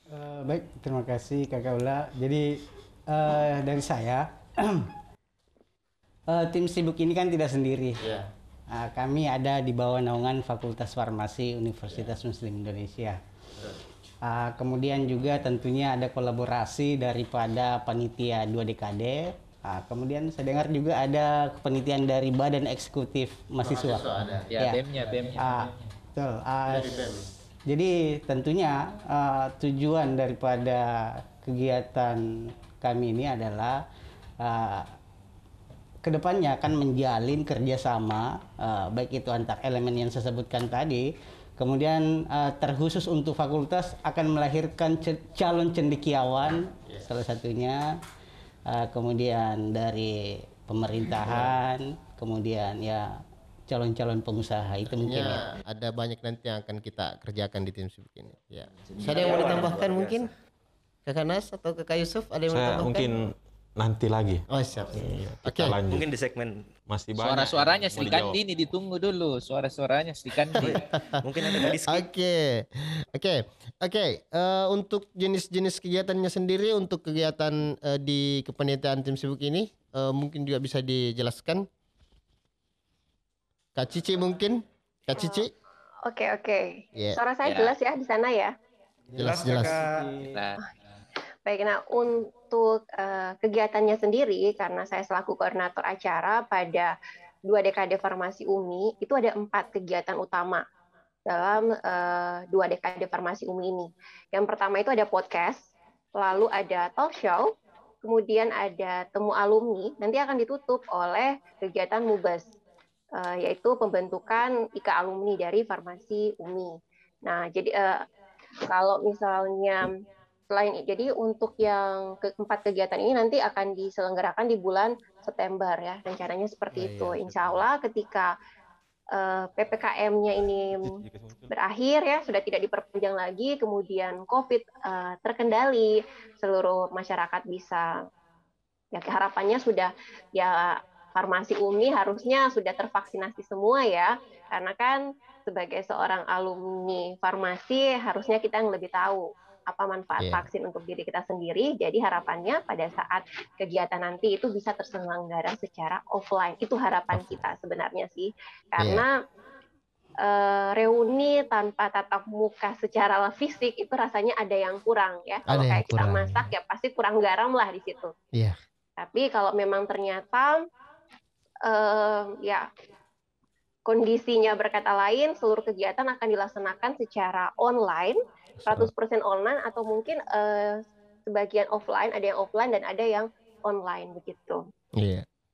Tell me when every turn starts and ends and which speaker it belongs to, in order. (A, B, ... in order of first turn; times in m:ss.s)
0:00.1-0:02.5 A
0:03.1-0:04.9 A
0:06.3-0:08.0 A
0:08.0-0:08.3 B
0:08.7-0:13.2 A
0:11.9-0:12.1 B
0:14.2-0:27.1 A
0:23.6-0:24.5 B
0:24.5-0:25.5 C
0:26.7-0:27.2 B
0:27.7-0:33.8 A
0:34.4-0:34.9 A
0:36.0-0:41.1 A
0:41.6-0:47.9 A
0:48.7-0:53.1 A
0:51.2-0:51.5 B
0:53.7-0:55.4 A
0:54.9-1:00.3 B
0:58.9-1:00.3 D
1:01.0-1:03.1 B
1:02.5-1:06.1 E
1:04.5-1:05.8 B
1:05.9-1:06.6 D
1:06.9-1:08.4 E
1:07.2-1:10.7 C
1:10.6-1:12.0 D
1:10.6-1:21.6 B
1:23.8-1:25.5 B
1:25.2-1:25.4 F
1:26.0-1:28.5 F
1:27.4-1:27.7 C
1:29.1-1:29.8 B
1:29.2-1:30.1 D
1:30.3-1:30.6 C
1:31.4-1:36.9 F
1:37.5-1:40.6 F
1:41.2-1:45.6 F
1:46.2-1:47.5 F
1:48.0-1:52.5 F
1:53.1-1:58.0 F
1:58.7-1:59.9 F
2:00.5-2:08.3 F
2:06.7-2:07.7 B
2:09.1-2:10.9 F
2:10.8-2:11.5 E
2:11.5-2:17.9 F
2:18.9-2:39.1 F
2:30.2-2:30.5 B
2:37.1-2:37.4 B
2:38.8-2:39.0 B
2:40.2-2:48.1 F
2:45.5-2:46.5 B
2:49.0-2:50.6 F
2:51.6-2:52.7 F
2:53.8-3:04.6 F
2:58.6-2:58.9 B
3:05.0-3:05.2 B